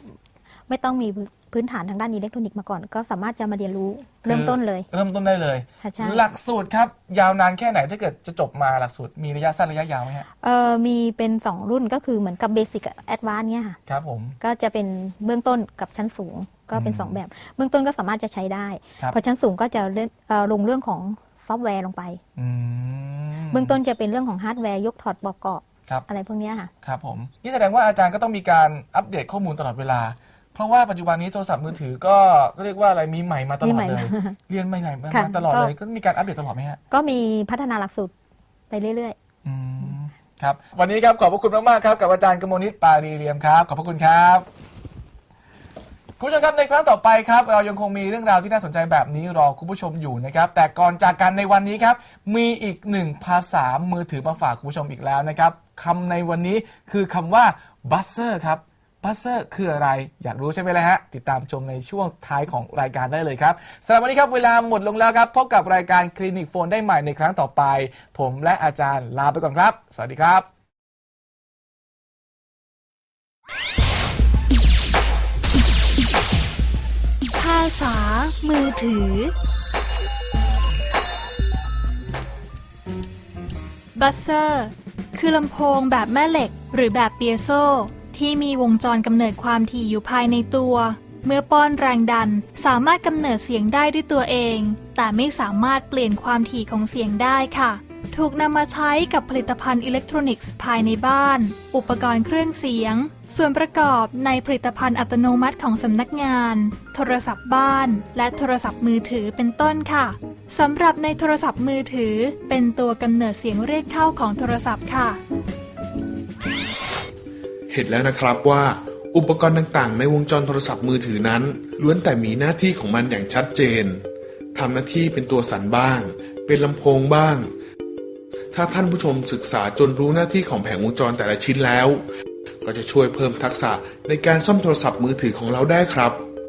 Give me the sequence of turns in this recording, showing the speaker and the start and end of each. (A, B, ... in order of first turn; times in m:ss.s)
0:00.7-0:04.9 A
0:04.2-0:10.3 B
0:05.8-0:06.3 A
0:10.4-0:13.8 A
0:13.9-0:14.4 B
0:14.4-0:22.2 A
0:16.7-0:17.2 B
0:22.4-0:23.8 B
0:23.5-0:26.7 A
0:26.8-0:36.8 B
0:33.6-0:34.4 A
0:35.1-0:35.7 A
0:36.9-0:38.1 A
0:38.7-0:39.2 A
0:39.4-0:44.5 B
0:46.2-1:10.5 B
1:17.3-1:19.3 C
1:24.0-1:55.2 C
1:57.7-2:07.5 D
2:08.5-2:12.0 D
2:12.6-2:16.2 D